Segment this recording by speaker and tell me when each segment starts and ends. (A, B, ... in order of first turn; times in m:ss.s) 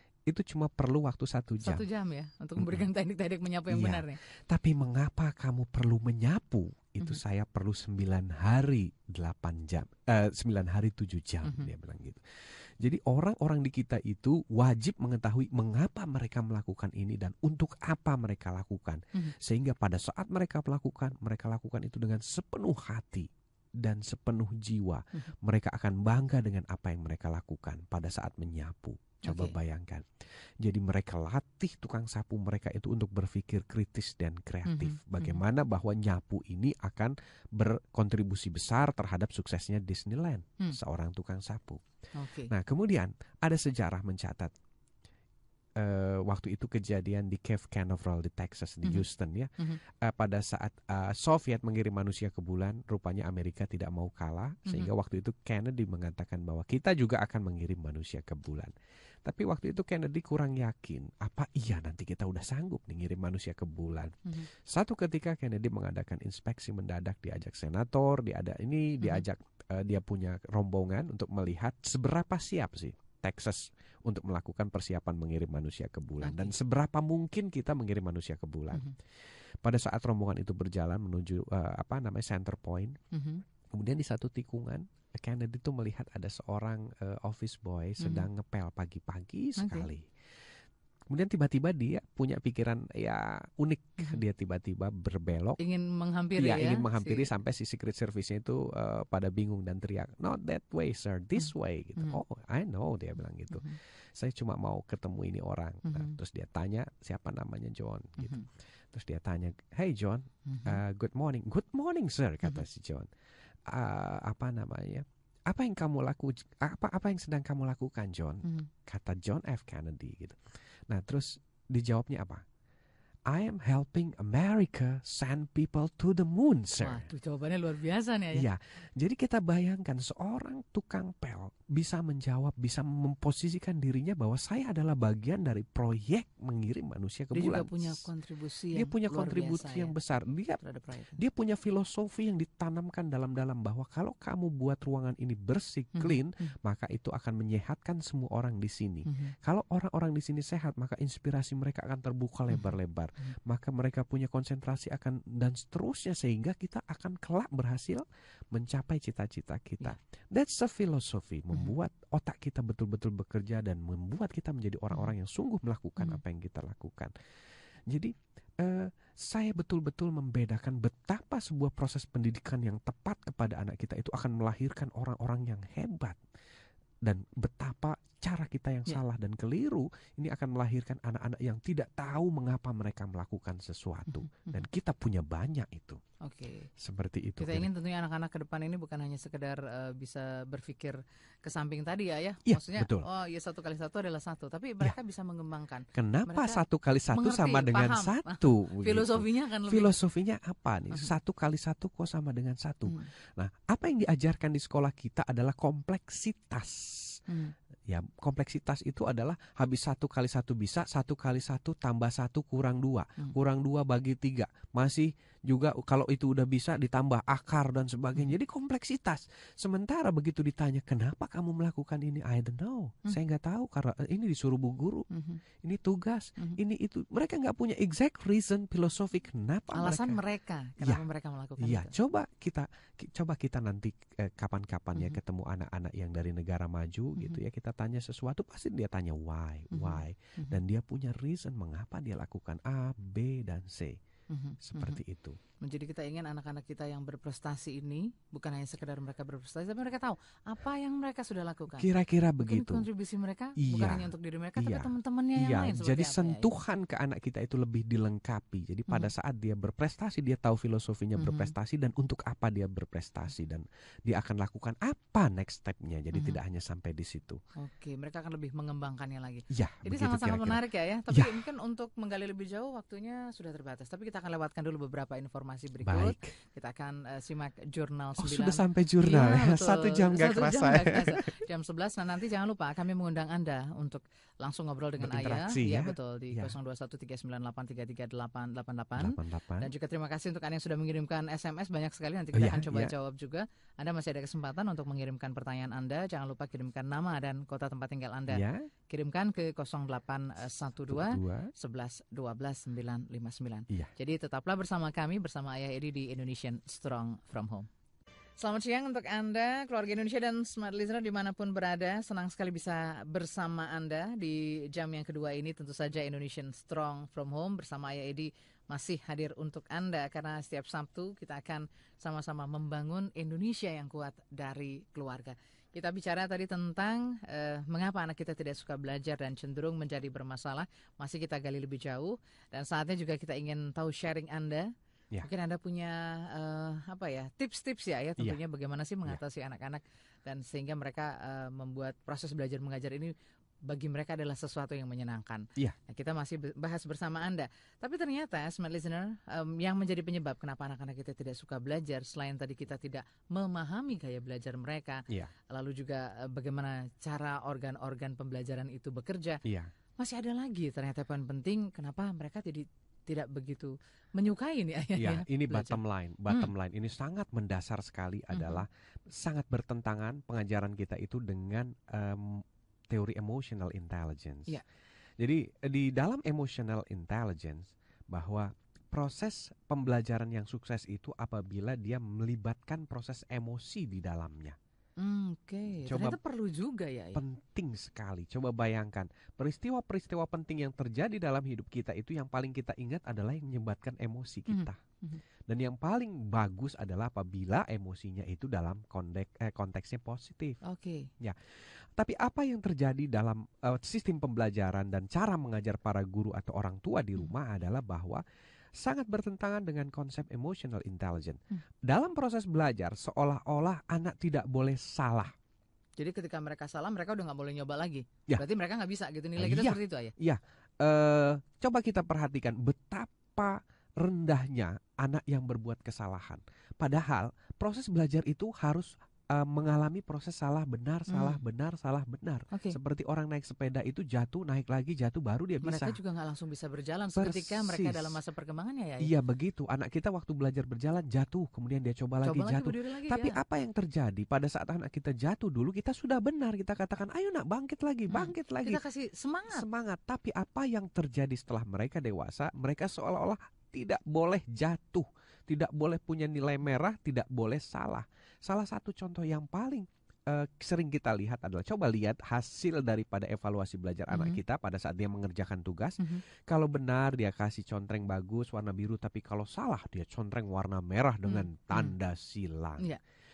0:00.3-0:01.8 A
0:01.6-0:04.2 B
0:02.6-0:02.8 A
0:03.7-0:30.1 A
0:11.4-0:11.7 B
0:29.2-0:29.6 B
0:30.6-0:41.8 A
0:34.6-0:35.4 B
0:42.2-0:42.5 B
0:42.5-0:44.5 A
0:45.8-1:18.9 A
0:54.6-0:54.9 B
1:16.2-1:16.5 B
1:19.6-1:23.0 A
1:23.1-1:23.4 B
1:23.7-1:30.1 A
1:28.0-1:28.3 B
1:29.6-1:29.9 B
1:31.1-1:35.6 A
1:35.6-1:37.3 B
1:36.4-1:53.1 A
1:43.5-1:43.8 B
1:45.8-1:46.1 B
1:48.2-1:48.4 B
1:50.5-1:50.8 B
1:53.7-2:02.4 A
2:03.3-2:07.1 A
2:06.8-2:08.4 B
2:08.3-2:18.0 A
2:17.3-2:19.9 B
2:18.7-2:20.6 A
2:20.6-2:21.2 B
2:21.2-2:47.1 A
2:25.9-2:26.5 B
2:29.1-2:29.3 B
2:32.5-2:33.3 B
2:47.9-2:56.2 A
2:57.0-3:06.0 A
3:04.1-3:04.6 B
3:06.2-3:06.7 B
3:06.8-3:07.7 A
3:07.4-3:20.0 B
3:12.4-3:13.0 A
3:15.9-3:27.2 A
3:27.3-3:27.5 B
3:27.9-3:45.1 A
3:45.1-3:45.4 B
3:45.6-3:50.2 A
3:49.7-3:51.9 B
3:51.6-4:04.0 A
3:59.7-4:00.6 B
4:04.3-4:05.0 B
4:04.6-4:05.4 A
4:05.6-4:11.9 B
4:11.8-4:12.8 A
4:12.4-4:16.5 B
4:13.6-4:27.4 A
4:21.2-4:21.5 B
4:26.1-4:26.4 B
4:27.6-5:07.7 B
4:29.5-4:30.6 A
4:31.1-4:31.4 A
4:35.8-4:36.3 A
4:38.2-4:41.2 A
4:45.0-4:46.6 A
4:49.0-4:49.7 A
4:52.3-4:52.9 A
4:58.3-4:58.7 A
5:00.9-5:01.5 A
5:08.4-5:34.7 B
5:35.2-5:43.1 B
5:43.6-5:59.4 B
5:59.4-5:59.7 A
6:00.0-6:06.5 B
6:05.0-6:14.6 A
6:08.3-6:08.6 B
6:15.2-6:24.6 A
6:25.0-6:27.2 B
6:25.8-6:26.2 A
6:27.1-6:34.8 A
6:34.5-6:35.2 B
6:35.5-6:40.6 A
6:40.6-6:41.1 B
6:41.2-6:48.2 A
6:48.8-6:55.3 A
6:56.0-7:00.1 B
6:59.4-7:16.0 A
7:11.1-7:11.4 B
7:12.5-7:12.8 B
7:15.6-7:19.1 B
7:17.2-7:18.2 A
7:19.0-7:28.8 A
7:22.2-7:23.4 B
7:28.1-7:29.6 B
7:29.5-7:52.8 A
7:44.1-7:44.4 B
7:51.2-7:51.9 B